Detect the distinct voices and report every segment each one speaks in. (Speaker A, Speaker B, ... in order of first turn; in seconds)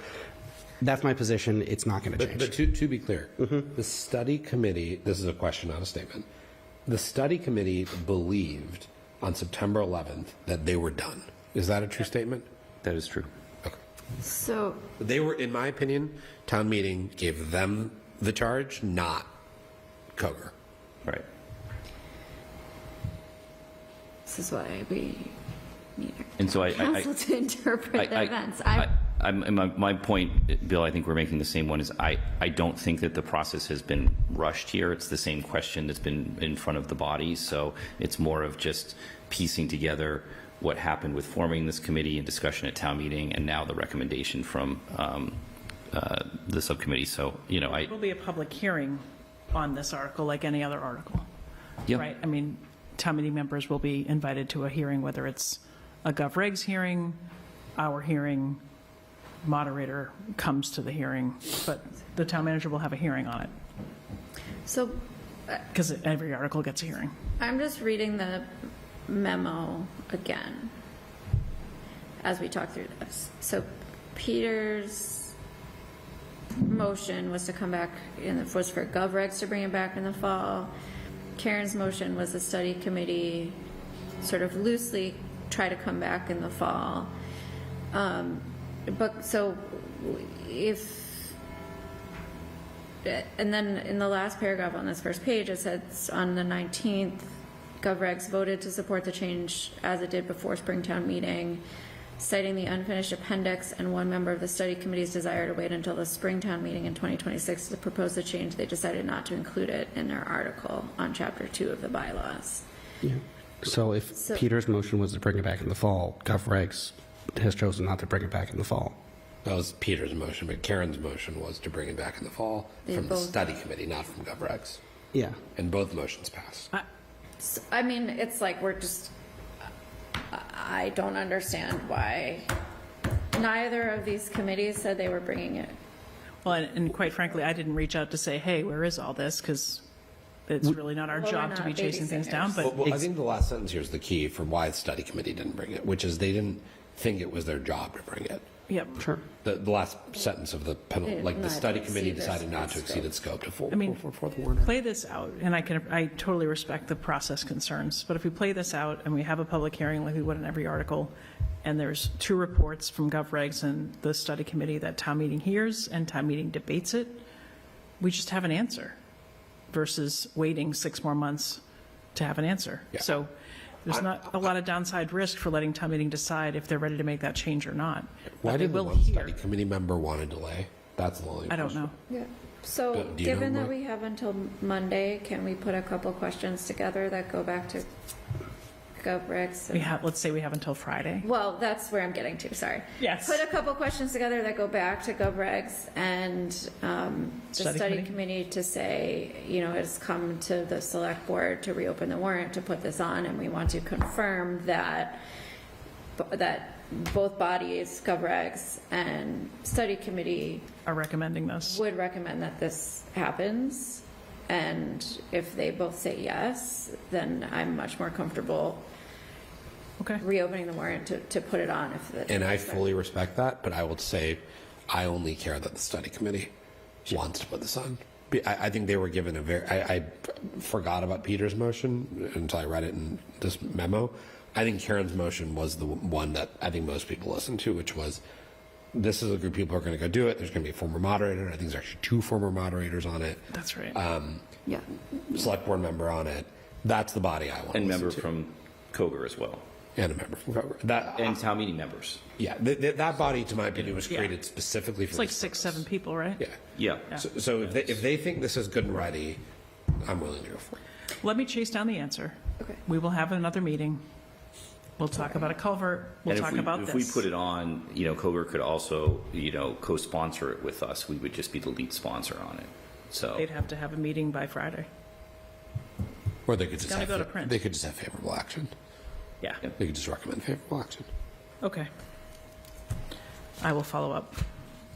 Speaker A: 0.8-2.5, 113.0-119.0
Speaker B: 2.2-6.3, 6.9-12.5, 15.0-19.3, 20.1-20.5, 119.5-124.8, 125.5-126.7, 142.6-148.4, 149.4-154.7, 178.4-181.9, 182.9-183.7, 222.3-226.5, 227.1-238.2, 238.9-244.5, 245.3-248.2, 250.0-251.3, 252.4-255.8, 257.1-259.4, 260.0-260.8, 276.5-278.7, 279.8-281.1
Speaker C: 12.8-13.3, 26.4-27.1, 27.9-45.4, 45.9-47.9, 247.7-249.6, 251.1-252.2, 256.8-257.1, 266.3-273.5
Speaker D: 14.2-14.9, 24.3-25.4, 26.0-28.9, 64.7-65.6, 67.4-68.5, 69.1-70.7, 72.2-75.3, 76.6-80.7, 81.4-83.6, 84.2-87.1, 87.9-91.4, 93.0-101.6, 102.2-112.7, 114.1-114.5, 122.8-123.4, 127.4-129.2, 130.3-132.5, 133.3-135.8, 141.1-142.6, 151.0-153.2, 182.1-187.9, 189.0-190.0, 191.2-205.2, 206.2-210.7, 211.6-218.9, 220.2-222.9
Speaker E: 47.7-51.3, 51.9-57.2, 57.8-58.6, 59.4-63.5, 65.7-67.1, 136.4-139.8, 140.5-143.0, 148.7-149.0, 153.7-154.0, 154.6-167.2, 168.0-169.0, 169.7-171.6, 172.2-173.3, 173.8-179.3, 181.5-181.9, 189.7-191.2, 193.0-193.4, 197.5-198.1, 210.9-211.8, 243.5-244.0, 255.1-256.5, 261.2-264.0, 265.0-267.2, 273.4-274.9, 276.8-277.6, 281.6-281.9, 283.6-284.4